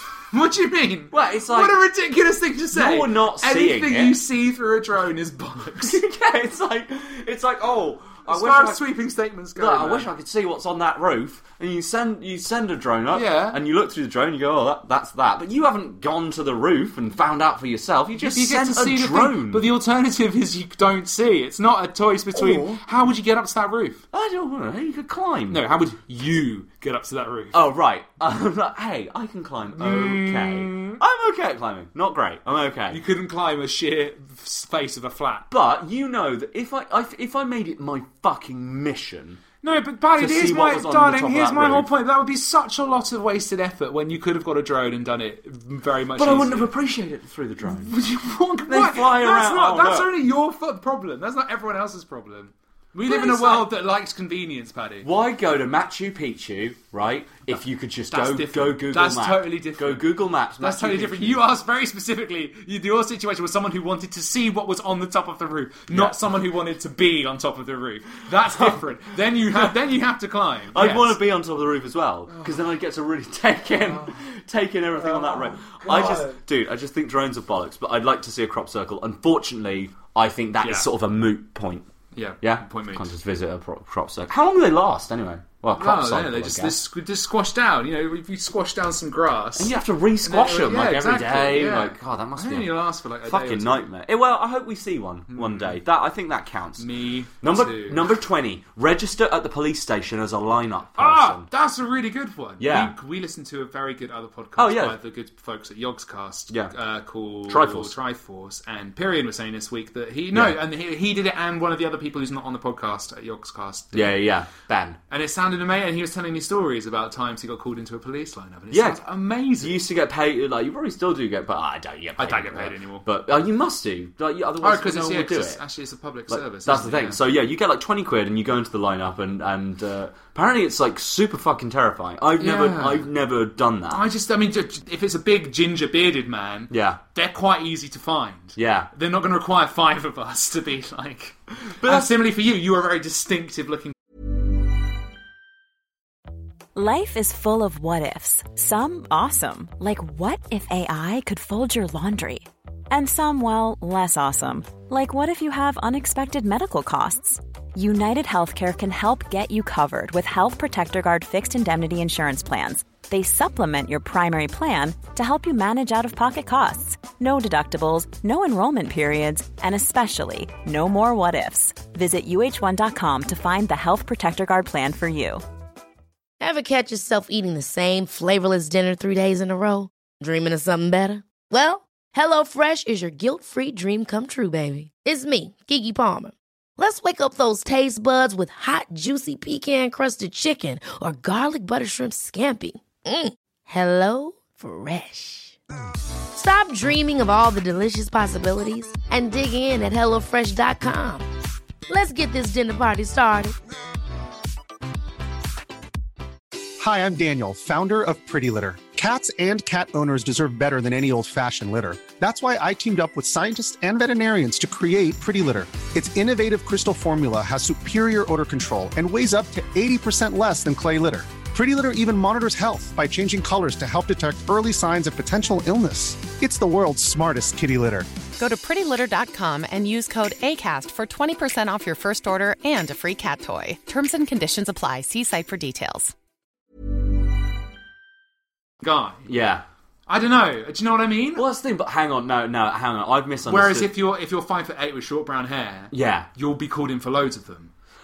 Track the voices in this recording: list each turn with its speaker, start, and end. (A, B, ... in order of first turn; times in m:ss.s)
0:00.3-0:06.0 A
0:01.1-0:01.8 B
0:02.7-0:04.2 B
0:05.8-0:08.8 B
0:08.2-0:10.1 A
0:09.5-0:19.7 B
0:13.1-0:13.6 A
0:18.2-0:24.0 A
0:22.3-0:22.8 B
0:24.1-0:25.6 B
0:25.5-0:27.6 A
0:27.5-0:33.0 B
0:29.7-0:31.0 A
0:32.9-0:35.5 A
0:35.5-0:39.4 B
0:39.6-0:46.7 A
0:40.2-0:41.9 B
0:46.2-0:47.9 B
0:47.6-0:55.1 A
0:48.7-0:50.1 B
0:53.0-0:53.7 B
0:55.0-1:01.4 B
0:58.1-1:00.0 A
1:00.6-1:11.2 A
1:05.9-1:06.2 B
1:08.4-1:08.8 B
1:10.7-1:21.9 B
1:12.3-1:12.6 A
1:15.0-1:16.4 A
1:20.6-1:20.9 A
1:22.1-1:23.1 A
1:22.4-1:26.8 B
1:25.8-1:33.8 A
1:29.6-1:36.9 B
1:35.3-1:35.8 A
1:36.8-1:38.0 A
1:37.4-1:41.5 B
1:41.0-1:54.2 A
1:42.6-1:42.9 B
1:44.6-1:45.0 B
1:47.5-1:47.9 B
1:50.3-1:50.6 B
1:53.9-1:55.0 B
1:55.1-1:59.8 A
1:58.7-1:59.0 B
1:59.6-2:05.6 B
2:02.2-2:03.0 A
2:04.6-2:07.2 A
2:06.3-2:14.0 B
2:12.4-2:13.1 A
2:13.9-2:23.9 A
2:16.7-2:17.0 B
2:18.6-2:18.9 B
2:21.8-2:22.3 B
2:26.7-2:55.4 C
2:56.4-3:15.6 D
3:16.3-3:21.2 D
3:21.9-3:23.6 D
3:26.8-3:48.1 E
3:48.4-3:56.1 F
3:58.8-3:59.2 A
3:59.2-3:59.6 B
4:00.1-4:01.4 A
4:01.3-4:03.9 B
4:03.4-4:07.7 A
4:05.9-4:06.3 B